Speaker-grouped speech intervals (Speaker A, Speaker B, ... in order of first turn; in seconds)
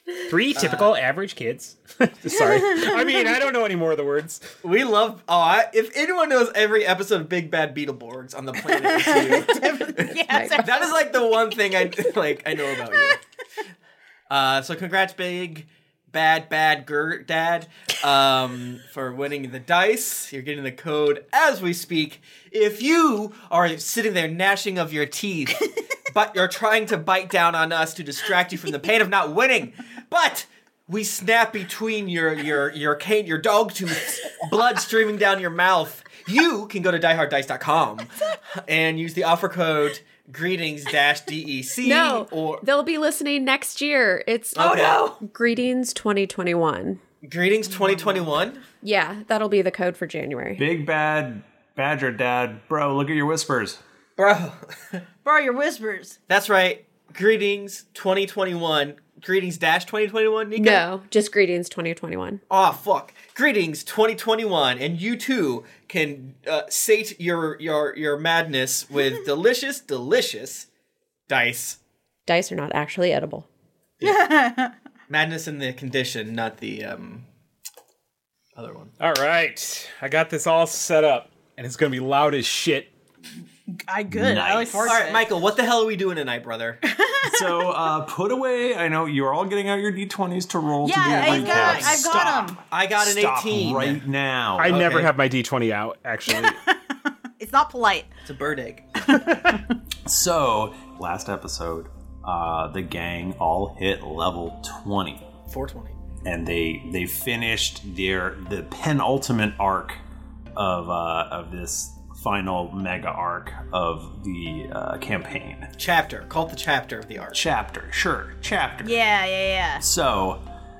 Speaker A: 0.3-4.5, 79.0-82.9, 94.6-96.6
Speaker B: 0.5-0.9, 4.6-13.2, 14.3-42.6, 44.5-45.1, 47.2-48.6, 54.2-55.0, 56.3-60.9, 62.5-70.7, 71.3-71.8, 75.1-77.3, 78.5-78.9, 84.8-86.8, 91.0-94.0, 94.6-95.1, 98.2-98.9, 105.5-106.0, 115.8-117.4
Speaker C: 8.7-11.0, 44.6-45.2, 55.2-56.2, 74.0-74.7, 83.9-85.3, 86.8-87.6, 90.8-92.6, 96.3-98.1, 99.1-99.6, 118.8-119.8
Speaker D: 10.3-10.6, 41.8-47.0, 48.8-50.6, 60.5-62.4, 72.3-73.5
Speaker E: 50.5-53.8, 84.1-84.9, 87.2-94.8, 100.0-105.2, 106.2-110.0, 110.5-115.7, 117.3-119.0, 119.8-120.4